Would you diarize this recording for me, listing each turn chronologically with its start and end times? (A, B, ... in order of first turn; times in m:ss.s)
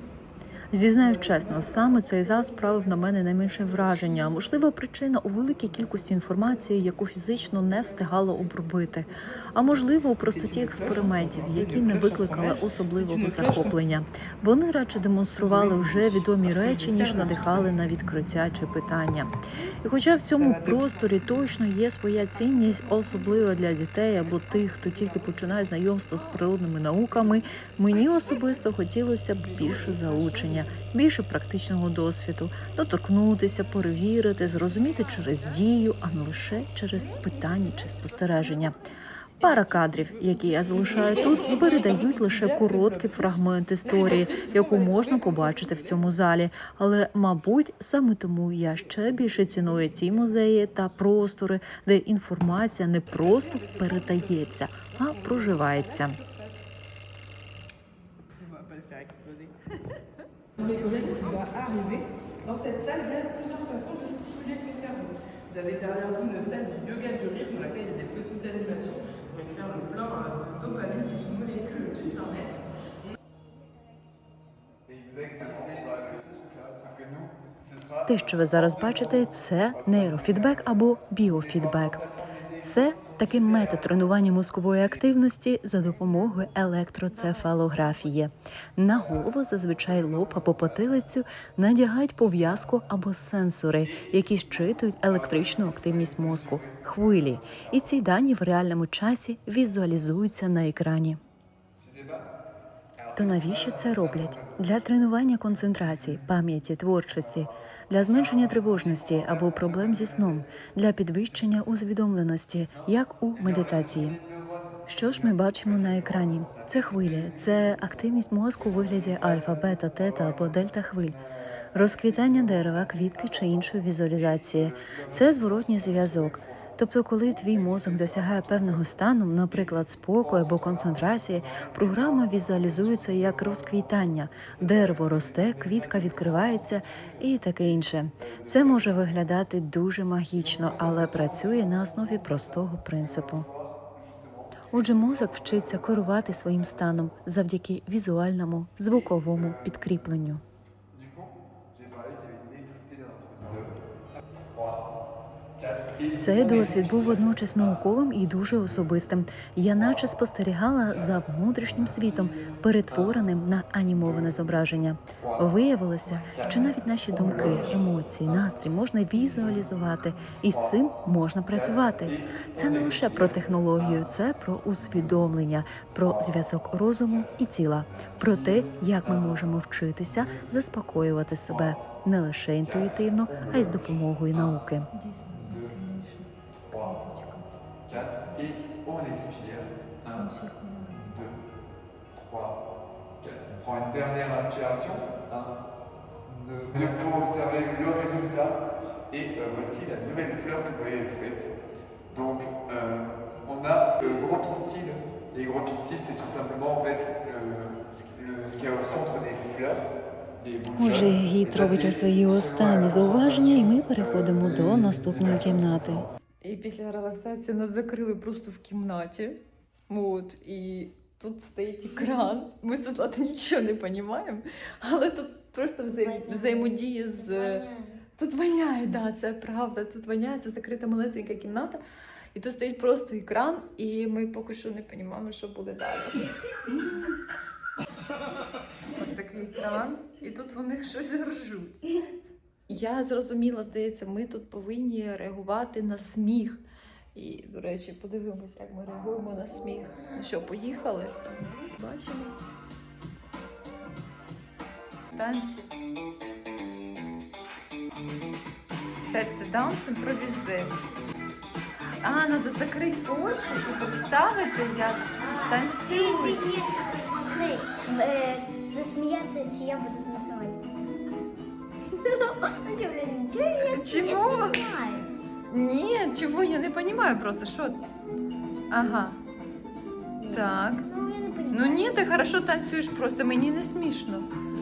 0:00.7-0:38.8 A
0:37.0-0:37.3 B
0:39.4-0:56.2 A
0:58.4-0:59.4 C
1:00.8-1:02.0 C
1:02.5-1:04.5 C
1:05.5-1:08.9 C
1:10.4-1:12.2 C
1:13.4-1:14.7 D
1:14.9-1:25.1 E
1:18.1-1:22.0 A
1:22.6-1:41.2 A
1:26.0-1:26.2 D
1:28.9-1:29.3 E
1:29.8-1:30.9 E
1:33.8-1:38.0 E
1:41.8-1:42.3 E
1:43.0-1:46.3 E
1:43.2-1:54.2 A
1:47.1-1:51.8 E
1:52.7-2:06.8 E
1:54.9-2:01.2 A
2:01.7-2:23.5 A
2:07.3-2:09.0 E
2:09.5-2:19.4 E
2:20.3-2:27.0 E
2:24.7-2:30.4 A
2:28.9-2:30.0 E
2:30.9-2:33.8 E
2:34.5-2:34.9 E
2:35.6-2:37.9 E
2:36.2-3:04.9 A
2:38.5-2:39.0 E
2:41.8-2:43.2 E
2:44.0-2:44.4 E
2:45.2-2:45.6 E
2:46.1-2:48.5 E
2:46.5-2:46.7 B
2:50.5-2:54.1 E
2:54.8-2:55.3 E
2:56.0-2:56.4 E
2:57.9-2:59.5 E
3:00.0-3:00.6 E
3:01.5-3:01.8 E
3:02.6-3:04.6 E
3:04.9-3:08.6 B
3:05.3-3:05.8 E
3:06.7-3:07.0 E
3:07.9-3:10.3 E
3:10.2-3:11.1 B
3:10.9-3:11.4 E
3:12.2-3:12.6 E
3:13.2-3:15.6 E
3:16.3-3:21.5 E
3:22.1-3:29.9 E
3:30.4-3:36.1 E
3:30.7-3:36.1 A
3:36.4-3:47.7 B
3:45.9-3:48.0 D
3:48.2-3:51.8 B
3:52.3-3:56.3 B
3:58.9-4:01.8 B
4:02.7-4:06.6 B
4:07.2-4:12.4 B
4:15.2-4:15.7 B
4:19.1-4:20.7 B
4:22.0-4:26.4 B
4:25.1-4:30.7 D
4:31.9-4:35.2 D
4:33.7-4:34.6 B
4:35.5-4:37.8 B
4:38.7-4:39.2 B
4:40.2-4:42.1 D
4:40.3-4:40.8 B
4:41.5-4:44.3 B